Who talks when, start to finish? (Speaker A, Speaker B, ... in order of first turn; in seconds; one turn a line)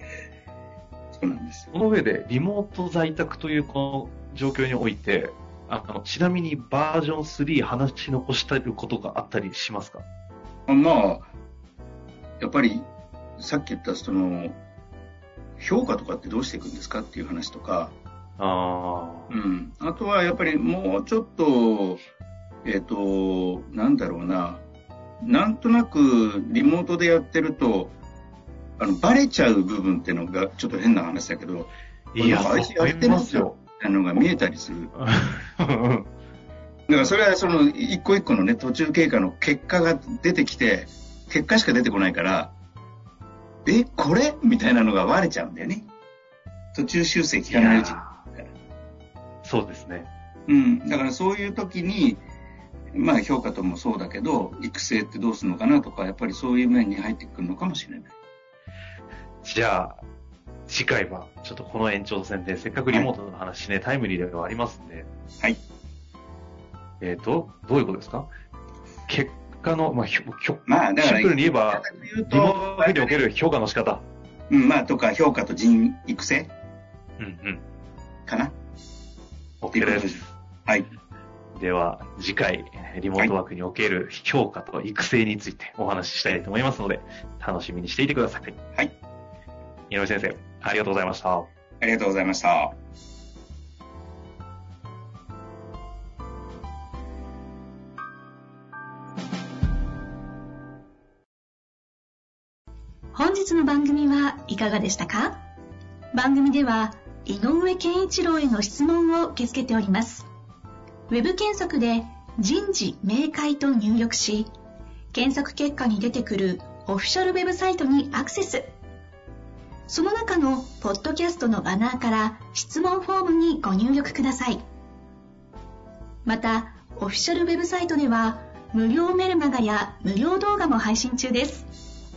Speaker A: 1.1-1.7
Speaker B: 1.7-10.0
Speaker A: 10.7-11.3
Speaker A: 12.4-14.6
Speaker A: 15.6-17.9
Speaker B: 18.4-19.3
Speaker A: 19.3-22.0
Speaker A: 22.6-24.6
Speaker A: 25.2-27.9
Speaker A: 28.8-34.9
Speaker B: 32.1-33.5
Speaker B: 35.0-36.1
Speaker A: 36.9-42.5
Speaker A: 43.6-45.9
Speaker A: 46.7-48.5
Speaker B: 47.5-48.2
Speaker B: 49.4-50.1
Speaker A: 50.5-52.2
Speaker A: 52.9-58.1
Speaker B: 59.4-60.0
Speaker B: 60.7-65.1
Speaker B: 67.0-68.3
Speaker B: 69.1-74.0
Speaker A: 70.7-73.2
Speaker A: 74.5-76.5
Speaker B: 77.2-77.6
Speaker A: 78.3-78.6
Speaker B: 79.6-80.3
Speaker A: 79.7-80.9
Speaker B: 81.5-88.6
Speaker B: 89.9-91.5
Speaker A: 91.8-92.8
Speaker C: 103.1-105.4
Speaker C: 106.1-110.3
Speaker C: 111.1-114.5
Speaker C: 115.1-118.7
Speaker C: 119.9-124.7
Speaker C: 126.3-131.7